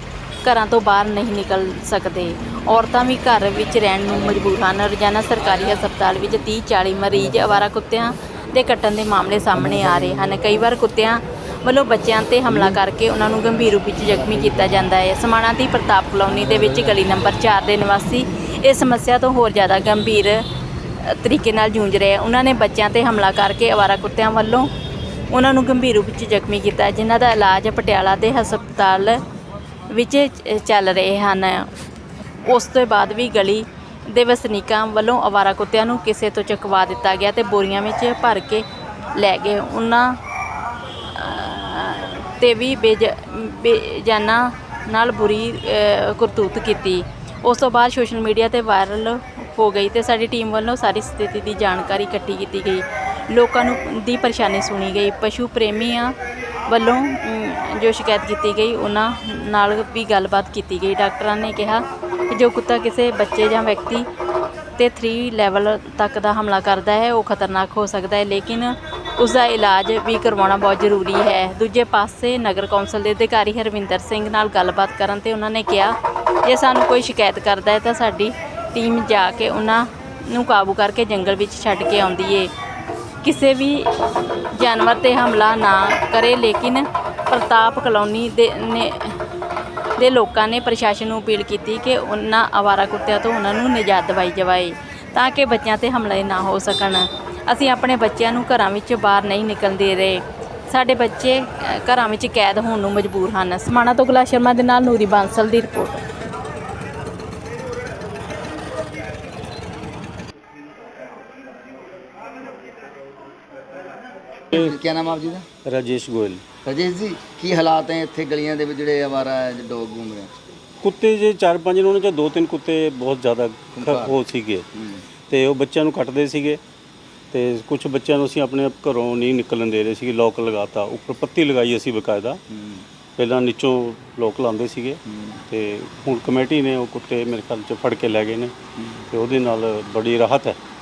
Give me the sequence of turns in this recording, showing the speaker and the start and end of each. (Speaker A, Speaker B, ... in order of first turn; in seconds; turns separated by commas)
Speaker A: 0.4-20.4, Speaker A: 21.0-24.7, Speaker A: 25.3-29.2, Speaker A: 29.9-31.7, Speaker A: 32.5-38.6, Speaker A: 39.2-40.2, Speaker A: 41.1-56.1, Speaker A: 56.7-64.1, Speaker A: 64.8-82.5, Speaker A: 83.2-83.9, Speaker A: 84.5-89.2, Speaker A: 90.0-106.0, Speaker B: 114.5-115.5, Speaker C: 115.7-116.4, Speaker B: 116.7-120.4, Speaker C: 120.8-124.7, Speaker B: 123.8-124.2, Speaker B: 124.8-125.0, Speaker C: 125.3-126.6, Speaker C: 127.3-132.4, Speaker B: 132.5-132.8, Speaker C: 133.2-138.5, Speaker B: 135.1-135.4, Speaker B: 138.8-139.0, Speaker C: 139.1-140.6